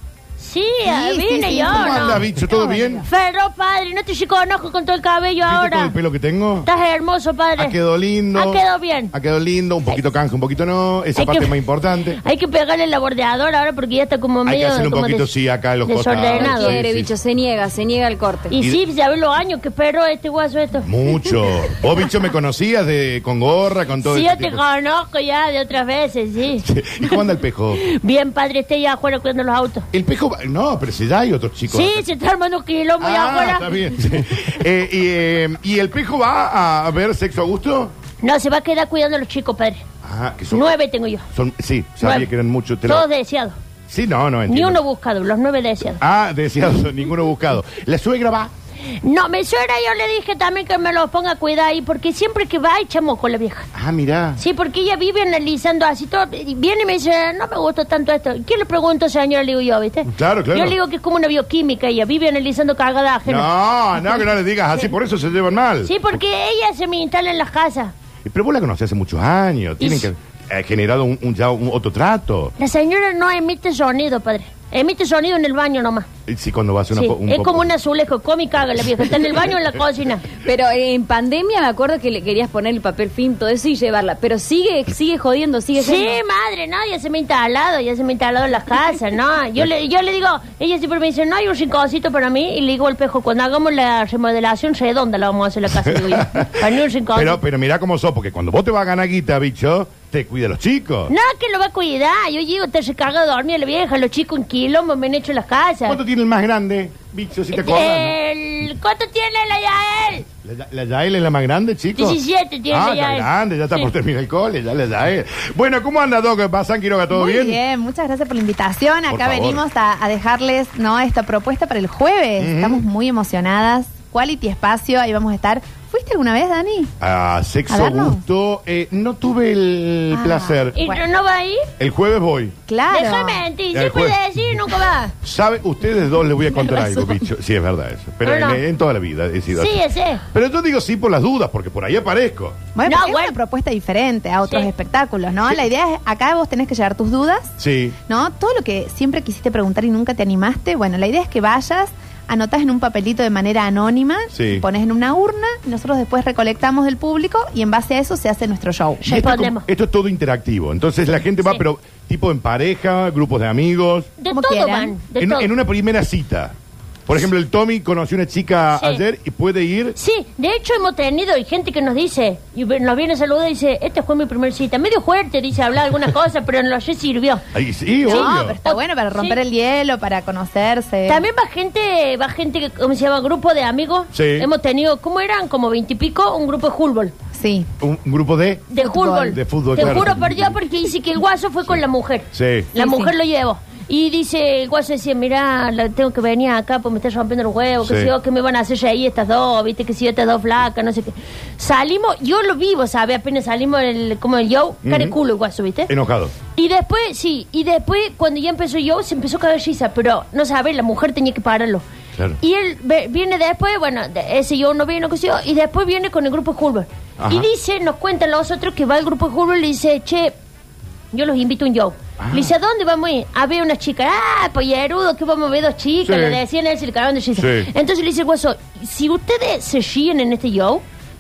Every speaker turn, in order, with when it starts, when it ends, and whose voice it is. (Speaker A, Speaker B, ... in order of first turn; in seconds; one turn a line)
Speaker A: 0.4-2.2
Speaker B: 0.8-3.0
Speaker C: 1.8-3.0
Speaker A: 3.0-5.9
Speaker C: 5.4-6.7
Speaker A: 6.7-7.8
Speaker C: 7.6-8.6
Speaker A: 8.3-9.1
Speaker C: 9.1-12.2
Speaker A: 11.2-11.6
Speaker A: 12.2-15.3
Speaker C: 14.4-17.1
Speaker A: 15.8-16.8
Speaker D: 16.3-18.5
Speaker A: 18.5-20.9
Speaker C: 20.8-24.6
Speaker A: 24.0-26.6
Speaker C: 26.6-27.8
Speaker A: 27.8-29.9
Speaker C: 29.9-32.0
Speaker A: 31.7-33.8
Speaker C: 33.0-37.9
Speaker A: 38.2-39.8
Speaker C: 40.0-40.7
Speaker A: 40.5-41.2
Speaker C: 41.3-43.1
Speaker A: 42.0-42.3
Speaker A: 42.9-43.5
Speaker C: 43.9-44.8
Speaker A: 44.5-46.0
Speaker C: 46.0-48.5
Speaker A: 49.0-53.7
Speaker C: 53.7-54.4
Speaker A: 54.4-63.5
Speaker C: 60.1-60.8
Speaker C: 63.2-65.9
Speaker A: 65.8-67.9
Speaker C: 68.2-72.5
Speaker A: 69.8-70.1
Speaker A: 72.6-76.1
Speaker C: 76.3-77.7
Speaker A: 76.9-80.3
Speaker D: 80.4-86.2
Speaker A: 85.7-97.4
Speaker C: 95.7-101.1
Speaker A: 101.1-106.0
Speaker C: 105.9-108.2
Speaker A: 107.5-110.3
Speaker C: 110.4-112.2
Speaker A: 112.0-113.9
Speaker C: 112.7-117.6
Speaker B: 117.1-126.9
Speaker C: 119.1-119.6
Speaker C: 122.4-122.8
Speaker C: 127.0-130.8
Speaker B: 127.7-128.2
Speaker B: 130.1-131.0
Speaker A: 130.8-131.7
Speaker C: 131.8-132.6
Speaker B: 132.7-133.4
Speaker A: 132.9-135.1
Speaker C: 133.7-134.2
Speaker C: 135.2-139.8
Speaker B: 136.7-137.0
Speaker A: 138.2-138.6
Speaker A: 139.5-140.2
Speaker C: 140.3-142.6
Speaker B: 142.7-159.4
Speaker A: 142.8-143.3
Speaker C: 147.6-147.9
Speaker C: 154.3-154.6
Speaker C: 159.0-164.1
Speaker A: 159.1-159.6
Speaker A: 164.2-165.5
Speaker B: 164.3-164.9
Speaker C: 165.2-166.5
Speaker C: 167.1-169.9
Speaker A: 168.7-169.0
Speaker A: 170.0-177.4
Speaker C: 177.5-178.6
Speaker B: 178.0-181.3
Speaker A: 178.1-179.4
Speaker A: 181.1-187.1
Speaker C: 184.1-184.5
Speaker B: 187.3-187.7
Speaker C: 187.8-188.7
Speaker A: 188.7-205.9
Speaker B: 188.8-189.4
Speaker C: 189.3-190.6
Speaker C: 192.3-192.7
Speaker B: 192.7-193.1
Speaker C: 197.8-198.1
Speaker C: 204.8-205.1
Speaker C: 205.9-206.3
Speaker A: 206.5-211.8
Speaker A: 212.4-220.3
Speaker C: 217.2-217.5
Speaker A: 221.1-230.8
Speaker C: 222.2-222.5
Speaker C: 226.0-226.4
Speaker C: 227.3-227.7